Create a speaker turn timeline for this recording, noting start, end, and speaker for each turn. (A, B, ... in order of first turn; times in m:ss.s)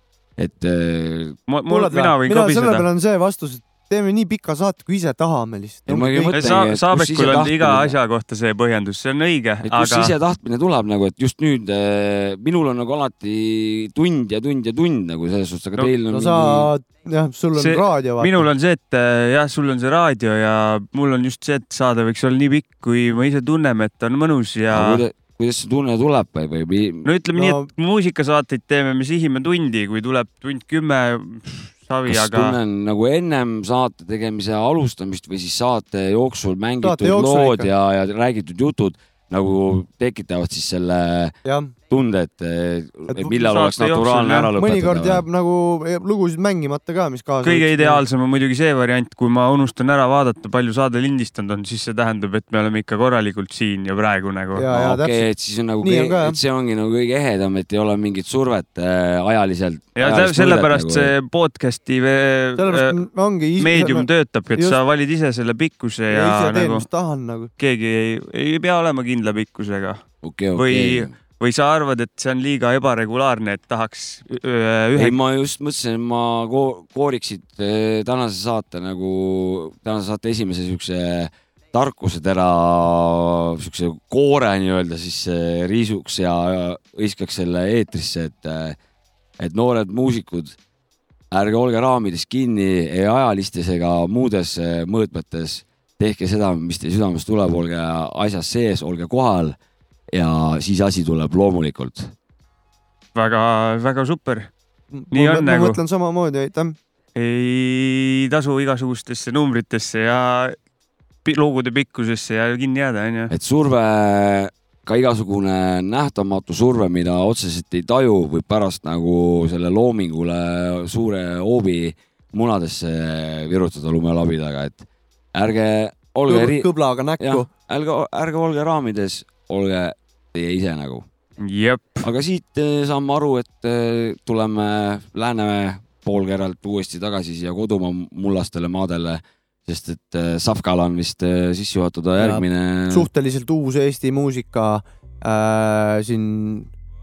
0:00.4-0:01.4 A
0:01.5-0:02.9 B
0:01.7-0:06.4 C
0:05.9-0:07.9 A
0:06.3-0:10.1 B
0:09.6-0:16.7 A
0:16.1-0:18.4 C
0:17.5-0:25.0 B
0:24.7-0:27.0 A
0:27.0-0:32.6 B
0:27.4-0:27.6 C
0:32.1-0:41.3 A
0:36.8-0:37.7 C
0:41.4-0:41.7 C
0:41.9-0:45.2 A
0:43.4-0:44.5 B
0:44.6-0:48.0 C
0:47.4-0:54.7 B
0:54.6-0:55.2 C
0:54.7-1:01.1 A
0:55.8-0:56.4 C
1:00.0-1:02.9 B
1:02.6-1:04.8 C
1:03.6-1:06.8 B
1:06.1-1:07.5 C
1:07.6-1:10.0 B
1:10.2-1:11.1 A
1:10.6-1:15.1 B
1:15.0-1:28.8 A
1:29.4-1:30.6 A
1:31.3-1:39.6 A
1:40.1-1:42.1 A
1:43.1-1:44.5 B
1:44.9-1:46.8 C
1:45.1-1:45.8 B
1:47.2-1:50.6 B
1:51.2-1:53.3 B
1:53.3-2:06.7 A
2:06.3-2:07.5 C
2:07.2-2:11.0 A
2:11.4-2:12.0 B
2:12.0-2:23.1 A
2:22.2-2:26.7 C